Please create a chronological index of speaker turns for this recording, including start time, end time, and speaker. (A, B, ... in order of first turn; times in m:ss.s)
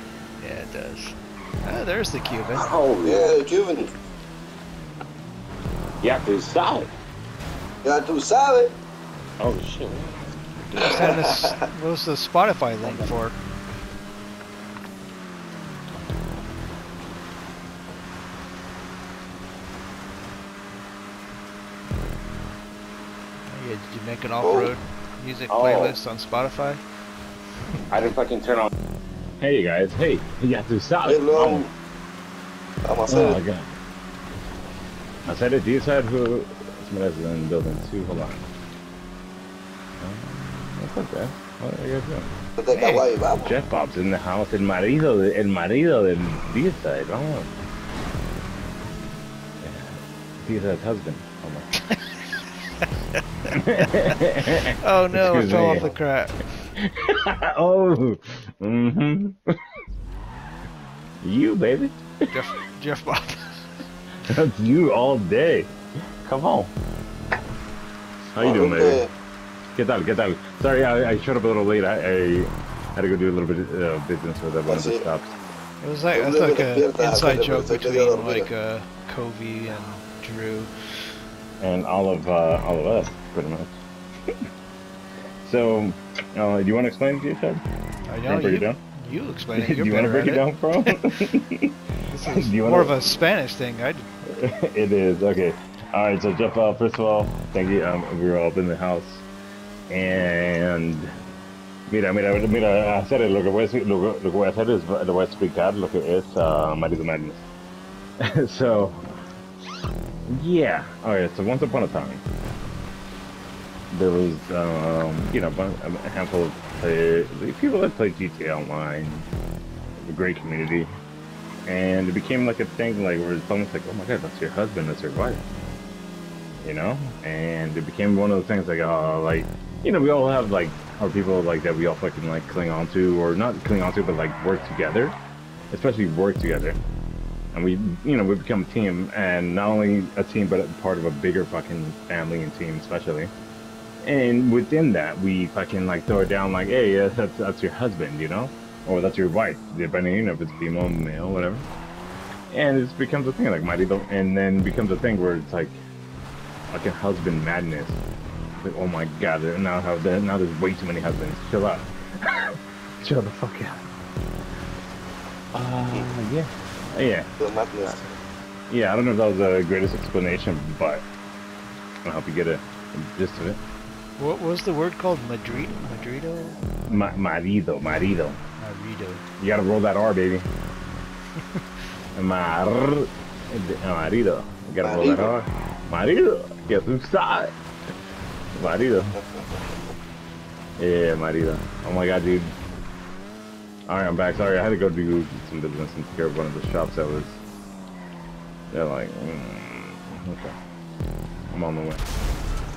0:00.4-0:02.7 A
0:02.5-0:03.4 B
0:02.9-0:03.9 C
0:06.0-0:06.9 B
0:07.8-0:08.7 C
0:09.4-0:11.0 B
0:10.7-0:13.4 A
0:10.8-0:11.6 C
0:23.5-0:26.8 A
0:24.4-0:24.7 C
0:25.5-0:26.0 B
0:27.9-0:28.7 B
0:29.4-0:31.6 B
0:31.0-0:31.7 C
0:32.8-0:33.4 C
0:33.1-0:33.4 A
0:33.1-0:33.7 B
0:35.2-0:38.5 B
0:40.0-0:42.3 B
0:42.6-0:43.5 C
0:42.7-0:43.1 A
0:43.4-0:47.5 B
0:49.6-0:52.0 B
0:51.9-0:52.3 A
0:53.5-0:55.9 B
0:53.8-0:56.4 A
0:56.8-0:59.4 B
1:01.2-1:02.0 B
1:02.3-1:03.7 A
1:04.2-1:05.7 B
1:06.2-1:06.7 B
1:08.3-1:09.0 B
1:08.4-1:09.1 C
1:09.7-1:15.4 B
1:14.6-1:15.1 C
1:15.8-1:20.7 A
1:16.1-1:18.5 C
1:21.6-1:23.8 B
1:25.4-1:27.6 B
1:28.1-1:30.9 A
1:28.2-1:28.8 B
1:29.5-1:31.7 B
1:32.1-1:34.1 A
1:32.3-1:33.0 B
1:34.3-1:39.2 B
1:39.9-1:41.1 B
1:41.9-1:47.4 B
1:48.2-1:49.0 B
1:50.3-1:52.2 B
1:53.9-1:59.3 B
2:00.0-2:00.9 B
2:01.6-2:05.4 B
2:06.6-2:15.2 B
2:15.7-2:16.8 B
2:17.5-2:23.3 B
2:24.0-2:31.6 B
2:32.5-2:35.8 B
2:36.7-2:38.0 B
2:38.6-2:43.8 B
2:45.5-2:47.3 B
2:47.4-2:48.1 C
2:48.7-2:51.0 B
2:52.0-2:53.6 B
2:54.2-2:56.6 A
2:56.9-2:58.4 B
2:58.6-2:59.2 A
2:59.4-3:00.5 B
3:02.1-3:07.5 B
3:04.8-3:05.3 C
3:08.5-3:09.2 B
3:10.8-3:12.5 B
3:13.9-3:17.4 B
3:18.7-3:20.6 B
3:21.5-3:22.0 B